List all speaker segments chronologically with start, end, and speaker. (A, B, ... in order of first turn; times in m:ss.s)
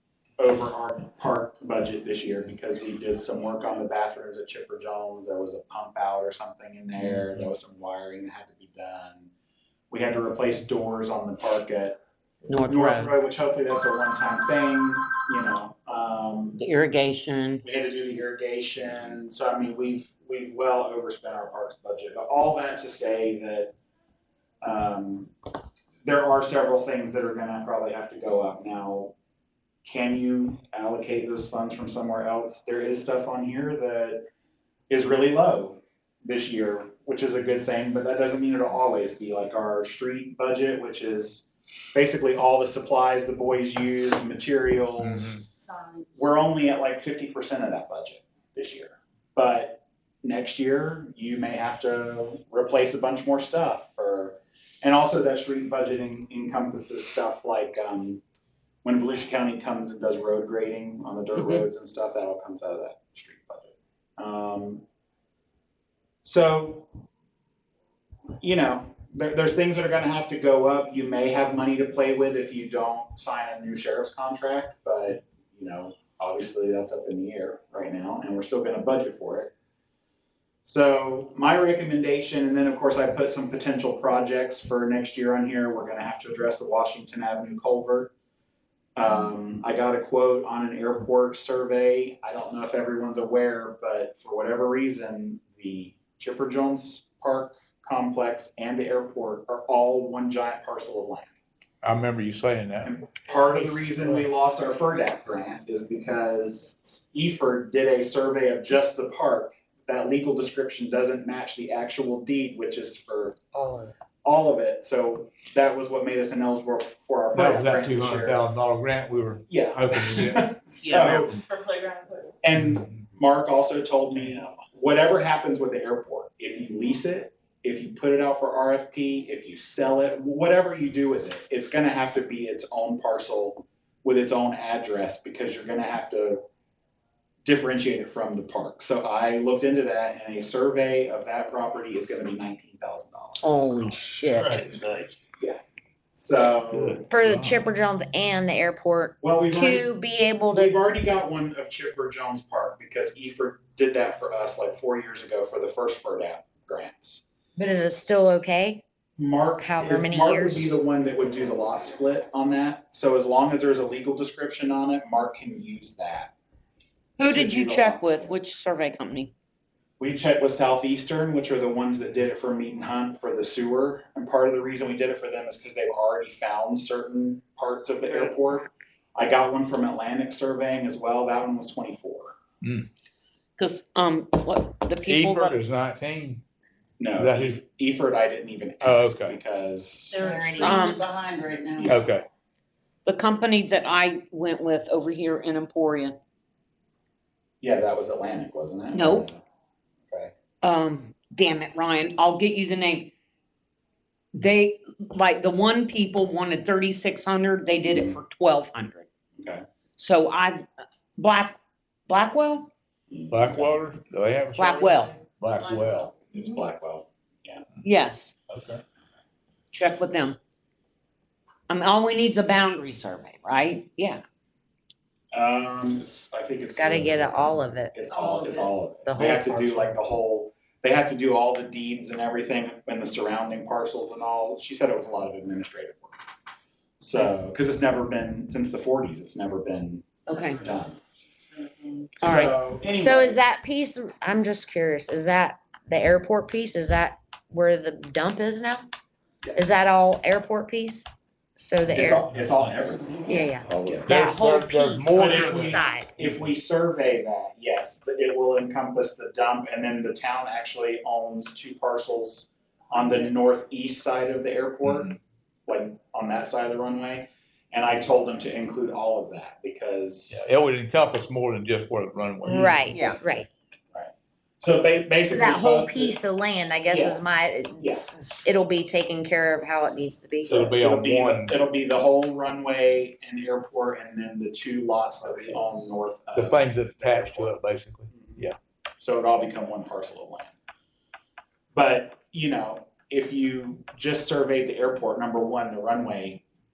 0:00.4-0:09.3 A
0:07.0-0:07.5 B
0:09.9-0:12.0 A
0:12.5-0:13.1 C
0:12.7-0:16.6 A
0:16.6-0:17.6 C
0:17.6-0:23.7 A
0:24.6-0:25.3 A
0:26.0-0:29.1 A
0:29.8-0:34.2 A
0:34.9-0:45.4 A
0:45.0-0:45.4 B
0:46.2-0:58.2 A
0:58.8-1:04.8 A
1:01.4-1:01.6 C
1:06.2-1:06.9 A
1:08.4-1:19.5 A
1:20.6-1:28.1 A
1:29.0-1:41.3 A
1:41.8-1:42.9 B
1:42.8-1:53.4 A
1:43.3-1:44.2 D
1:53.5-1:53.9 D
1:54.2-1:58.4 A
1:57.3-2:01.4 B
1:59.5-2:01.3 A
2:00.8-2:02.3 E
2:02.4-2:16.4 A
2:02.6-2:02.9 B
2:17.4-2:23.6 A
2:23.4-2:24.6 D
2:24.4-2:25.1 B
2:26.1-2:27.0 A
2:26.7-2:27.7 B
2:27.1-2:30.8 D
2:29.2-2:29.9 A
2:30.5-2:37.2 A
2:37.6-2:38.8 D
2:39.2-2:46.3 A
2:39.6-2:40.7 D
2:47.2-2:49.3 C
2:47.2-2:48.3 A
2:50.0-3:02.4 A
3:02.6-3:02.9 B
3:03.6-3:05.6 C
3:05.1-3:06.4 B
3:07.0-3:10.3 A
3:07.2-3:07.6 B
3:08.8-3:09.4 B
3:10.1-3:11.8 E
3:10.2-3:11.0 D
3:10.6-3:11.1 C
3:11.8-3:12.1 A
3:11.9-3:12.3 B
3:13.0-3:16.2 C
3:17.6-3:19.4 A
3:18.9-3:19.3 C
3:20.6-3:23.1 C
3:24.3-3:29.1 C
3:27.9-3:28.2 A
3:29.4-3:29.6 A
3:30.0-3:30.7 C
3:31.2-3:31.6 C
3:32.1-3:32.7 C
3:33.1-3:33.8 A
3:33.3-3:36.2 B
3:34.6-3:35.2 C
3:36.3-3:37.6 A
3:37.8-3:38.4 C
3:38.5-3:38.8 B
3:39.7-3:40.4 C
3:41.7-3:44.2 C
3:45.3-3:56.2 A
3:46.8-3:48.0 D
3:48.2-3:48.6 E
3:49.0-3:50.0 D
3:57.0-4:01.0 A
4:00.3-4:00.6 C
4:01.8-4:02.1 E
4:02.2-4:02.6 C
4:02.2-4:03.4 A
4:03.0-4:08.9 D
4:09.6-4:12.2 D
4:11.9-4:14.1 A
4:13.3-4:16.1 D
4:14.0-4:15.8 B
4:15.1-4:25.1 A
4:24.8-4:25.2 B
4:25.7-4:30.5 A
4:30.3-4:33.0 B
4:32.4-4:33.5 D
4:32.9-4:33.2 C
4:33.9-4:36.2 A
4:35.3-4:40.7 D
4:36.9-4:37.2 A
4:37.8-4:38.4 A
4:40.5-4:41.6 B
4:40.6-4:47.6 A
4:46.4-4:48.6 B
4:48.1-4:48.5 A
4:49.0-4:50.5 A
4:51.7-4:56.4 A